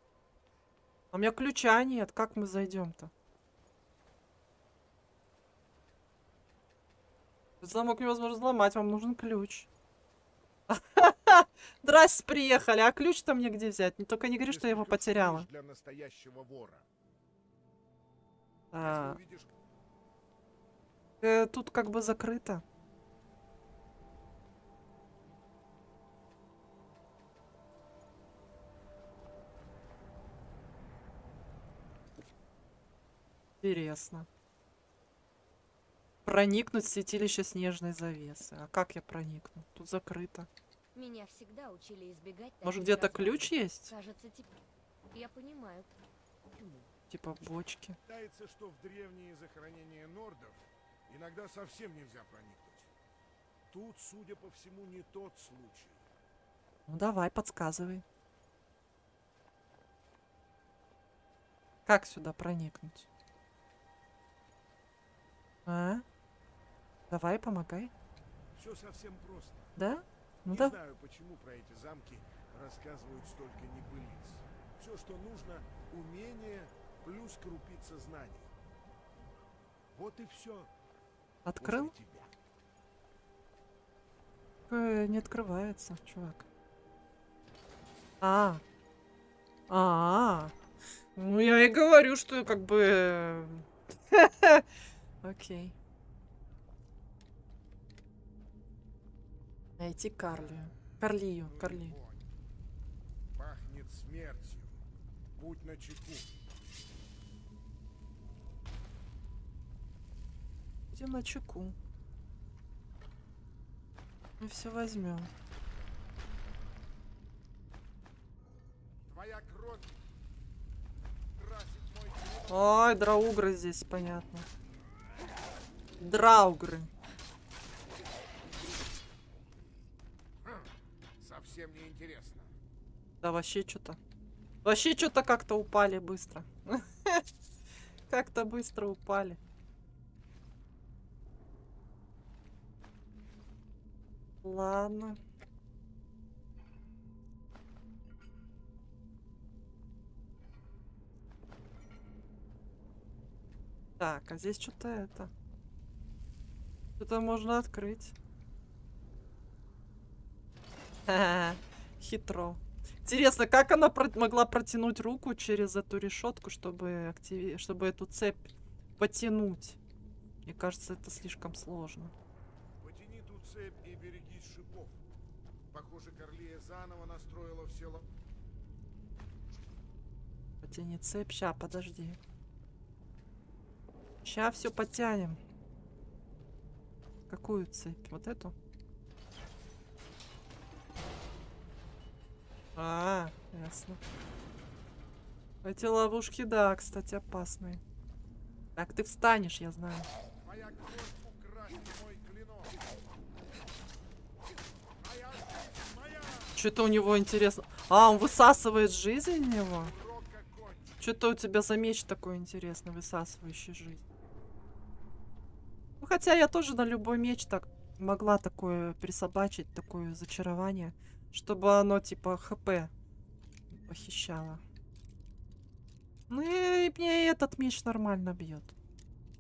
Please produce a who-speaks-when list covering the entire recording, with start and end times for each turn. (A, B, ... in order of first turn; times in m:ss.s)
0:01.1-0:03.1 A
0:07.6-0:09.7 A
0:10.7-0:15.5 A
0:14.5-0:16.9 B
0:18.7-0:19.2 A
0:18.7-0:19.5 B
0:21.2-0:22.6 A
0:33.6-0:34.3 A
0:36.2-0:40.5 A
0:41.0-0:44.5 C
0:42.6-0:43.9 A
0:45.1-0:45.9 C
0:47.1-0:48.0 A
0:48.1-0:52.9 B
0:53.7-0:56.1 B
0:56.9-0:58.0 A
1:01.9-1:03.1 A
1:05.7-1:06.0 A
1:07.1-1:07.9 A
1:08.6-1:09.8 B
1:09.8-1:10.8 A
1:10.5-1:18.5 B
1:19.9-1:20.7 B
1:21.4-1:21.9 A
1:21.6-1:22.3 B
1:24.7-1:26.5 A
1:28.2-1:28.6 A
1:29.7-1:30.5 A
1:31.2-1:34.7 A
1:35.2-1:35.8 A
1:39.8-1:42.0 A
1:40.3-1:42.3 B
1:43.4-1:44.8 B
1:45.4-1:46.3 B
1:50.9-1:51.8 A
1:54.4-1:55.3 A
1:59.1-2:00.0 B
2:01.4-2:02.9 B
2:02.5-2:04.5 A
2:06.0-2:06.9 A
2:11.2-2:12.5 B
2:13.2-2:14.0 A
2:14.6-2:17.2 A
2:18.1-2:19.4 A
2:24.4-2:25.2 A
2:34.0-2:35.3 A
2:37.0-2:38.2 A
2:41.1-2:49.8 A
2:50.4-2:52.1 A
2:52.8-2:55.0 B
2:55.7-2:58.1 B
3:00.6-3:02.2 A
3:04.2-3:05.4 A
3:07.3-3:08.5 A
3:12.8-3:14.0 A
3:15.6-3:17.8 A
3:18.8-3:20.1 A
3:20.4-3:22.8 B
3:25.0-3:26.6 B
3:26.6-3:29.9 A
3:29.8-3:31.0 B
3:31.0-3:34.0 A
3:36.0-3:42.9 A
3:43.8-3:44.6 A
3:46.3-3:48.8 A